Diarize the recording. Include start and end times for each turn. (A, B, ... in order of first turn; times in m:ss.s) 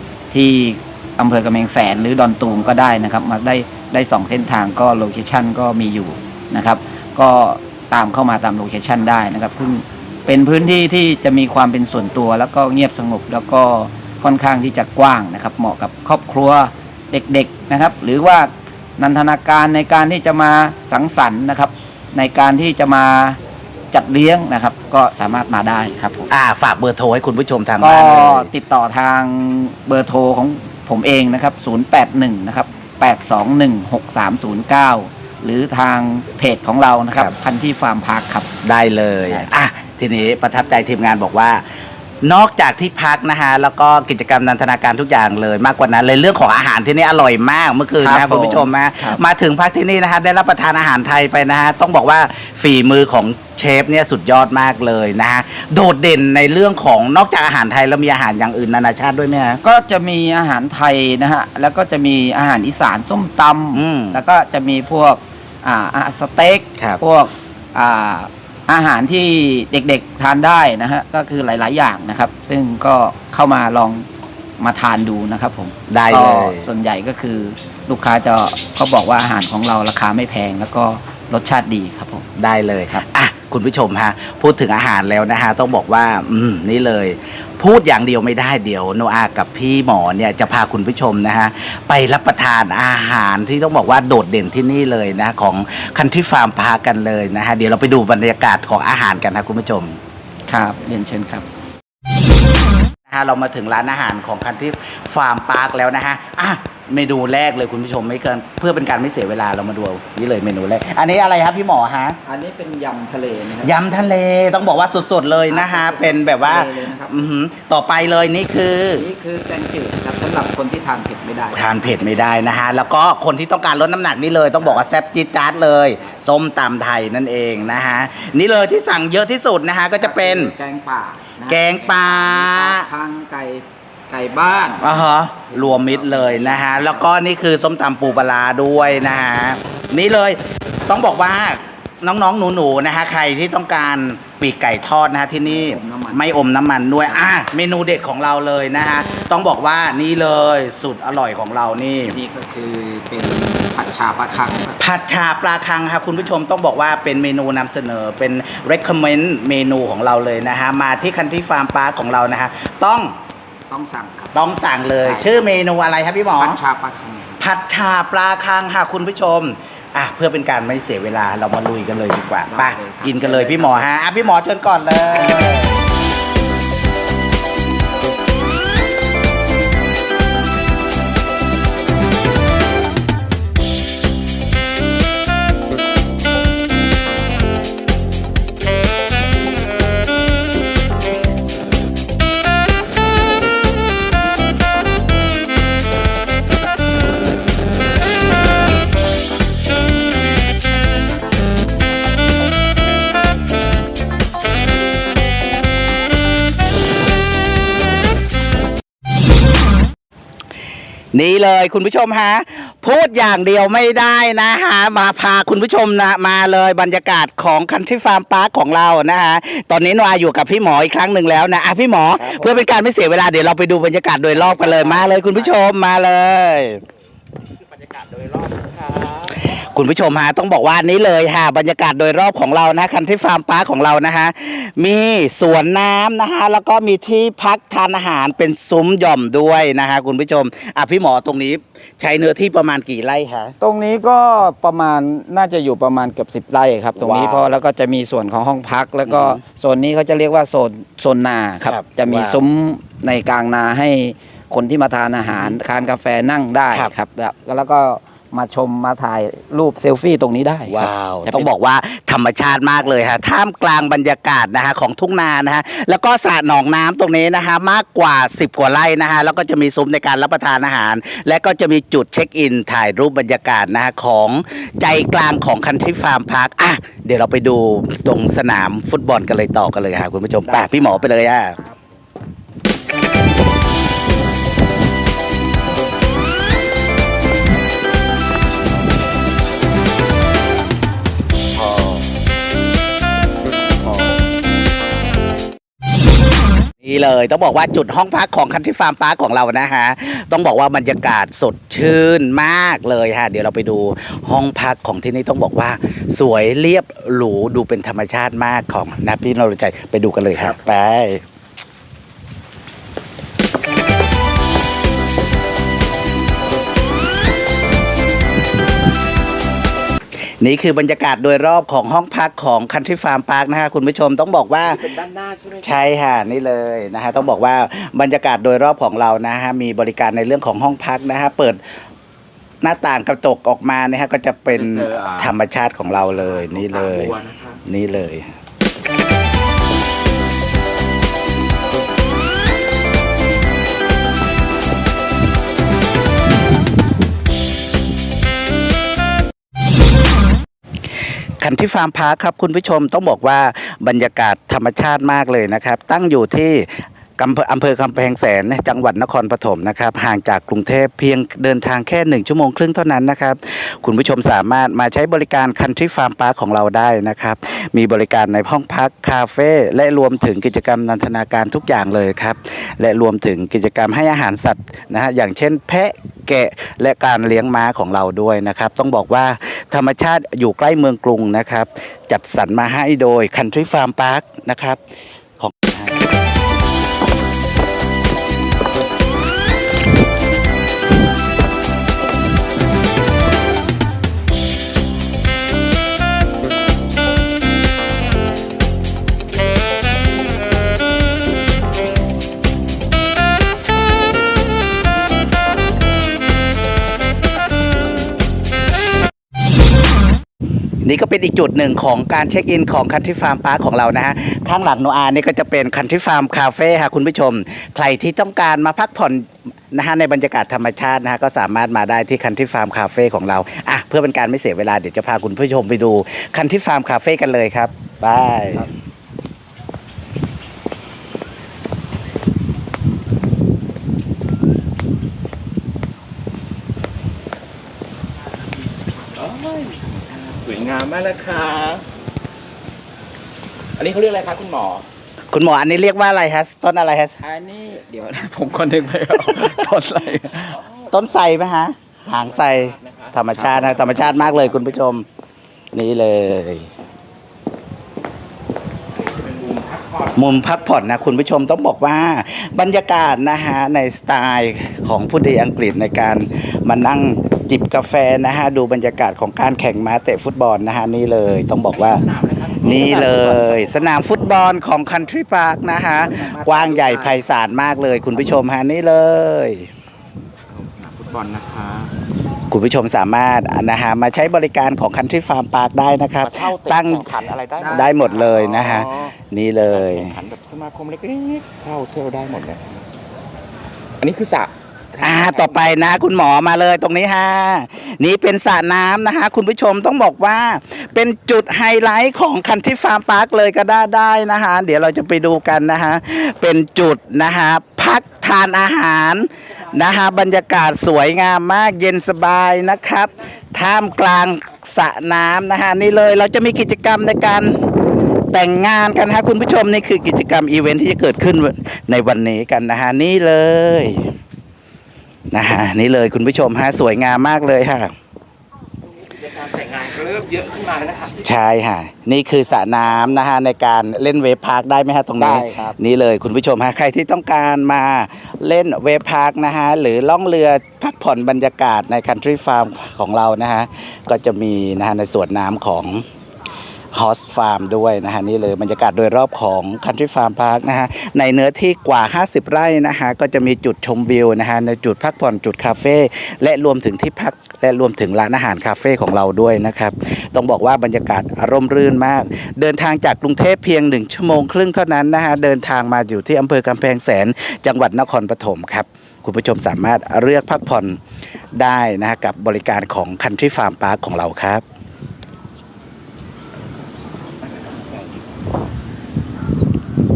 0:00.3-0:23.4 A
0:23.9-0:26.3 A
0:26.3-0:28.5 B
0:27.8-0:38.5 A
0:38.6-0:41.6 B
0:42.2-0:59.6 B
0:48.0-0:49.2 A
0:59.6-1:14.1 A
1:03.7-1:04.2 B
1:14.6-1:22.3 A
1:15.9-1:16.7 B
1:22.4-1:40.0 B
1:40.5-1:41.5 A
1:43.1-1:52.2 B
1:52.3-1:53.8 A
1:53.6-1:59.1 B
1:55.5-1:57.2 A
1:59.0-2:02.3 A
2:01.5-2:10.5 B
2:04.6-2:04.9 A
2:10.0-2:17.1 A
2:11.5-2:12.9 B
2:14.8-2:32.2 B
2:25.4-2:26.3 A
2:27.0-2:27.3 A
2:32.1-2:34.8 A
2:34.8-2:43.2 B
2:43.7-2:44.4 A
2:44.3-2:46.6 B
2:45.0-2:45.4 A
2:46.4-2:47.4 A
2:47.4-2:55.8 B
2:52.5-2:54.5 A
2:55.1-2:55.7 A
3:31.1-3:46.8 B
3:42.2-3:42.6 A
3:44.3-3:45.6 A
3:47.7-3:49.4 C
3:49.4-4:03.6 B
4:03.6-4:21.5 A
4:07.0-4:07.5 B
4:09.1-4:09.4 B
4:11.6-4:12.4 B
4:15.3-4:15.6 B
4:20.7-4:41.6 B
4:40.5-4:41.1 A
4:51.6-4:52.0 B
4:56.8-5:11.2 B
5:20.4-5:24.9 B
5:24.6-5:25.9 C
5:25.6-5:31.6 B
5:32.6-5:38.3 B
5:34.5-5:35.3 C
5:36.4-5:37.6 C
5:51.4-6:24.8 B
6:25.4-6:26.0 B
6:50.8-7:08.7 B
7:19.2-7:21.8 C
7:23.8-7:24.9 C
7:25.3-7:27.2 B
7:27.2-7:30.6 A
7:30.9-7:35.1 B
7:32.2-7:34.8 C
7:35.7-7:36.7 B
7:39.0-7:40.7 C
7:40.1-7:52.0 B
7:51.7-7:54.2 C
7:52.6-7:59.7 B
7:56.0-7:57.2 C
8:00.5-8:01.9 C
8:02.5-8:07.1 B
8:06.2-8:09.2 C
8:07.6-8:07.9 A
8:07.6-8:10.2 B
8:09.7-8:12.8 C
8:14.0-8:15.8 C
8:15.0-8:37.6 B
8:38.3-8:44.1 B
8:45.3-8:47.9 B
8:49.0-8:51.2 C
8:51.2-9:06.1 B
8:55.2-8:55.8 A
9:06.9-9:31.0 B
9:31.6-9:34.6 B
9:37.5-9:37.9 C